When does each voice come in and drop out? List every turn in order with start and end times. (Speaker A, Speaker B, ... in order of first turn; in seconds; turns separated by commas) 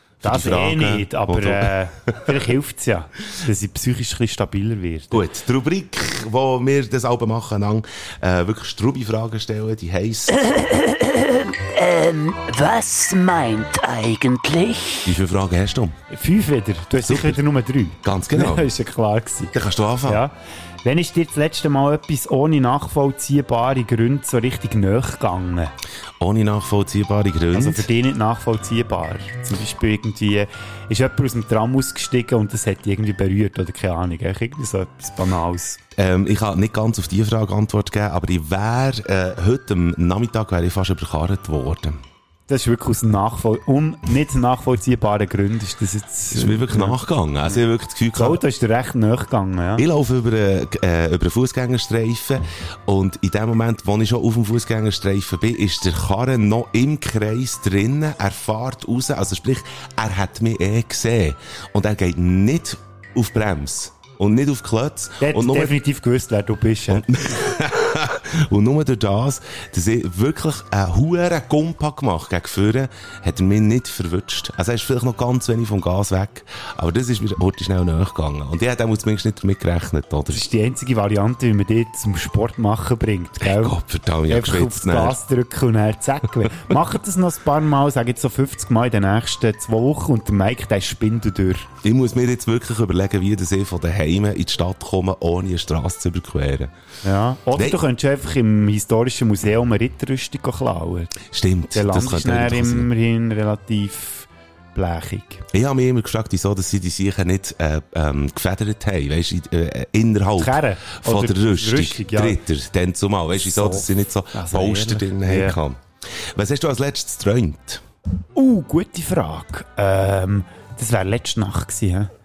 Speaker A: 0.2-2.4, Speaker B: 0.2-5.2, Speaker A: 5.1-10.4, Speaker B: 10.3-15.1, Speaker A: 15.1-16.0, Speaker B: 16.1-19.5, Speaker A: 17.0-17.4, Speaker A: 18.0-18.7, Speaker A: 19.5-20.2, Speaker B: 20.1-25.7, Speaker A: 26.2-27.9, Speaker B: 27.5-35.8, Speaker A: 36.0-42.0, Speaker B: 42.5-47.6, Speaker A: 46.3-48.4, Speaker B: 48.1-49.8, Speaker A: 49.8-65.8, Speaker B: 65.2-67.1, Speaker A: 66.9-80.4, Speaker B: 80.3-83.8, Speaker A: 83.4-85.2, Speaker B: 84.3-91.7, Speaker A: 91.8-96.7, Speaker B: 97.0-101.2, Speaker A: 97.5-97.8, Speaker A: 101.3-102.9, Speaker B: 101.7-105.4, Speaker A: 105.5-117.8, Speaker B: 110.4-112.4, Speaker B: 113.4-115.6, Speaker B: 118.3-122.1